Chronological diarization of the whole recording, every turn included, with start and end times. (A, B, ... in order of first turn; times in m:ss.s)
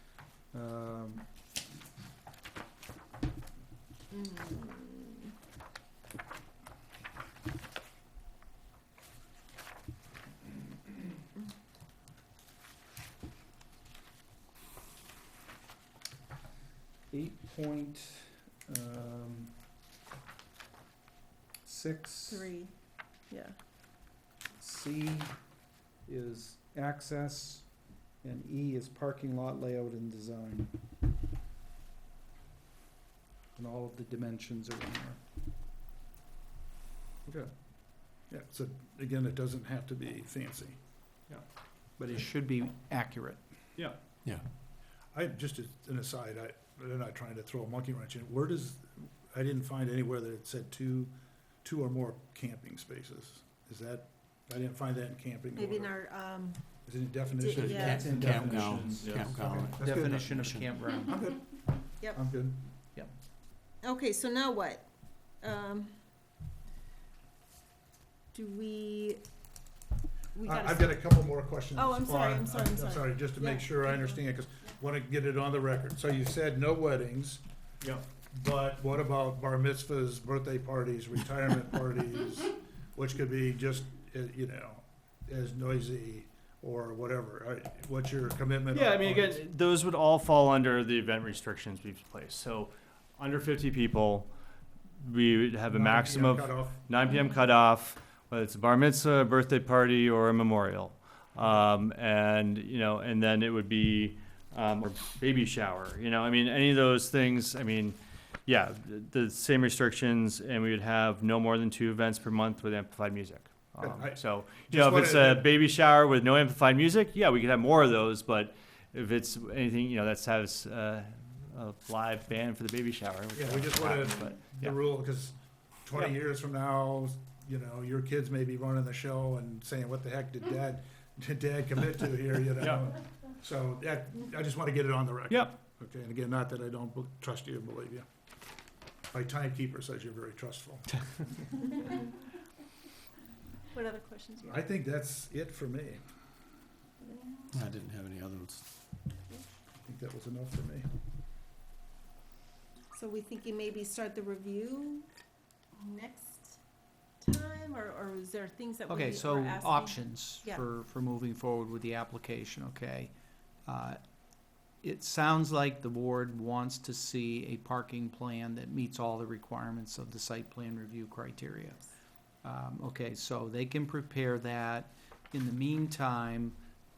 0:00.5-0:01.3 A
0:04.1-0:05.3 B
0:17.1-0:19.6 A
0:21.6-0:22.5 A
0:22.3-0:22.7 B
0:23.3-0:23.6 B
0:24.6-0:25.4 A
0:26.1-0:27.7 A
0:28.2-0:30.7 A
0:33.6-0:35.2 A
0:37.3-0:37.5 C
0:38.3-0:40.8 D
0:42.0-0:43.4 A
0:45.1-0:51.1 D
0:51.6-0:55.9 D
0:55.6-0:56.6 B
0:56.8-1:00.3 D
0:57.4-0:58.3 B
0:57.5-1:00.8 E
0:58.0-0:59.0 A
0:58.5-0:59.4 C
0:59.8-1:01.2 A
1:00.9-1:02.6 D
1:03.8-1:04.9 B
1:05.4-1:05.9 B
1:08.3-1:09.2 B
1:10.4-1:11.0 B
1:10.4-1:17.4 D
1:11.8-1:14.2 B
1:18.2-1:29.4 D
1:28.7-1:34.3 C
1:35.0-2:04.8 C
1:35.7-1:36.8 D
1:53.8-1:55.5 D
2:03.4-2:05.4 D
2:05.9-2:18.1 D
2:12.6-2:12.9 C
2:19.1-2:21.0 D
2:23.7-2:24.6 B
2:24.4-2:26.0 D
2:27.0-2:27.5 B
2:27.5-2:28.6 E
2:29.8-2:30.9 D
2:32.9-2:35.1 B
2:35.8-2:36.6 B
2:37.2-2:40.6 B
2:38.9-2:43.1 A
2:43.7-2:44.0 A
2:44.8-2:51.8 A
2:52.4-2:56.6 A